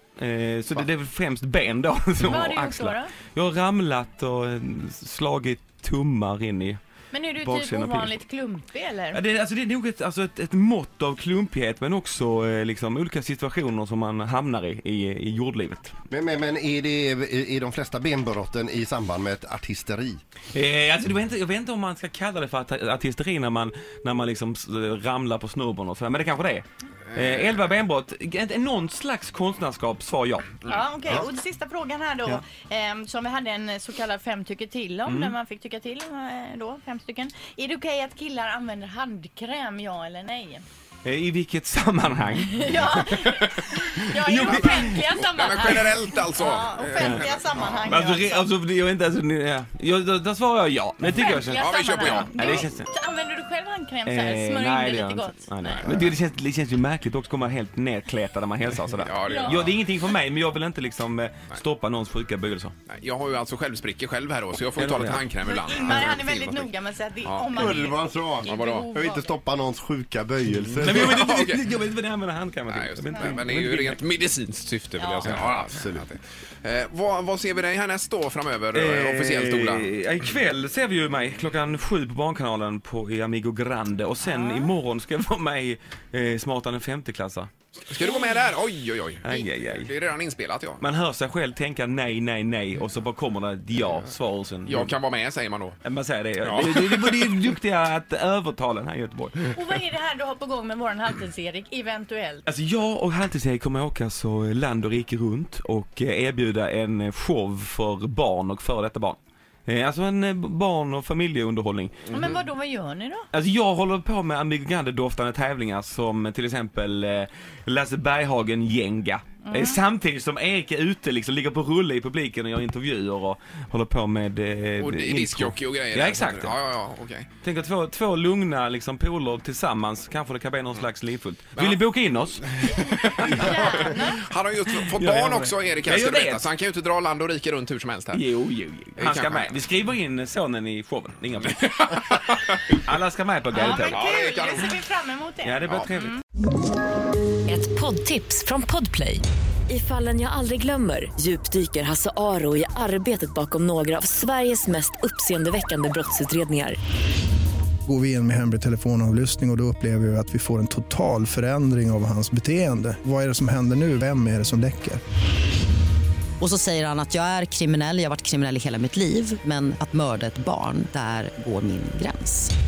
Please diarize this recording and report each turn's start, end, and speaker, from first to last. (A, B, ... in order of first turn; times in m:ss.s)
0:00.2-0:06.8 A
0:02.2-0:03.1 B
0:07.1-0:09.2 B
0:07.4-0:08.2 A
0:09.1-0:16.0 A
0:16.1-0:20.2 C
0:20.5-0:30.6 A
0:30.6-0:40.6 B
0:35.1-0:35.3 A
0:41.0-0:45.8 A
0:42.6-0:48.5 B
0:44.4-0:47.9 D
0:46.9-0:47.3 A
0:47.9-0:52.9 A
0:51.1-0:56.0 B
0:51.6-0:52.7 D
0:54.0-1:02.8 A
0:55.7-0:56.0 D
0:59.0-0:59.8 D
0:59.2-0:59.7 B
1:02.9-1:06.7 D
1:04.8-1:05.3 A
1:05.4-1:09.4 B
1:07.2-1:07.7 D
1:07.5-1:11.3 C
1:08.4-1:08.9 D
1:10.8-1:14.0 A
1:10.8-1:11.6 D
1:12.7-1:19.9 D
1:15.0-1:15.3 B
1:15.2-1:16.1 C
1:18.7-1:27.5 A
1:24.4-1:24.7 B
1:27.9-1:30.8 D
1:29.2-1:29.9 A
1:30.8-1:35.0 A
1:34.6-1:35.8 D
1:35.8-1:39.8 A
1:36.4-1:37.2 D
1:39.5-1:42.4 B
1:42.4-1:52.1 A
1:52.1-1:53.3 B
1:53.3-2:06.6 A
1:59.4-1:59.8 B
2:04.8-2:07.3 D
2:07.4-2:16.5 A
2:13.2-2:14.2 B
2:13.6-2:18.2 D
2:18.1-2:24.0 A
2:19.0-2:19.6 D
2:21.6-2:22.6 D
2:23.5-2:26.2 B
2:23.9-2:24.7 D
2:25.4-2:26.1 A
2:27.5-2:36.8 E
2:37.8-2:45.0 F
2:46.4-2:52.5 G